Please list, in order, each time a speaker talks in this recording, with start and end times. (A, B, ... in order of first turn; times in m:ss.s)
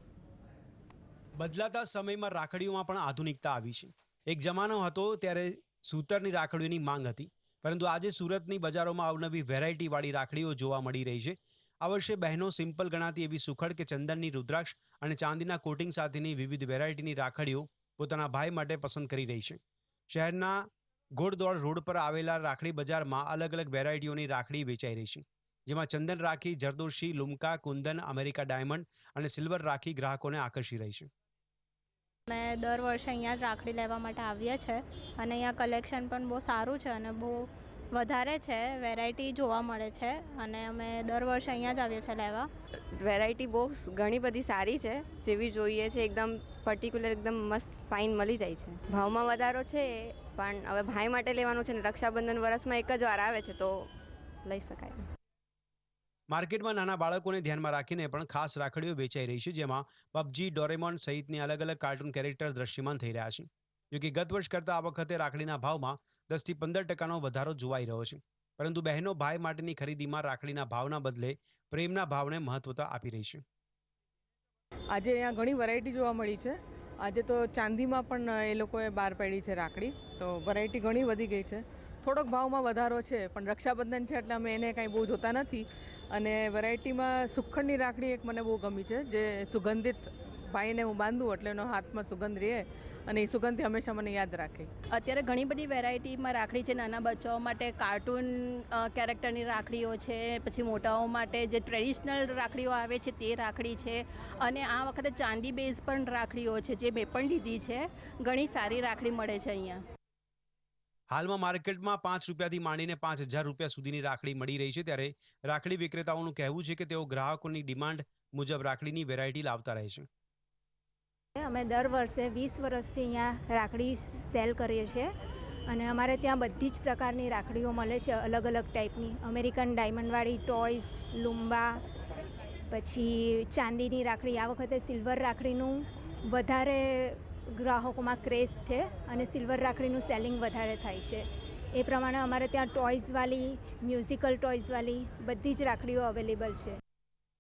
0:01.4-0:20.6 A
0:21.2-0:31.1 A
0:32.3-0:37.4 B
0:38.0-0:42.5 B
0:43.0-0:53.9 C
0:54.4-0:55.0 C
0:56.3-1:13.4 A
1:15.0-1:34.7 D
1:34.9-1:49.8 E
1:51.1-2:00.1 A
2:01.4-2:05.1 F
2:05.7-2:11.8 F
2:12.7-2:26.8 F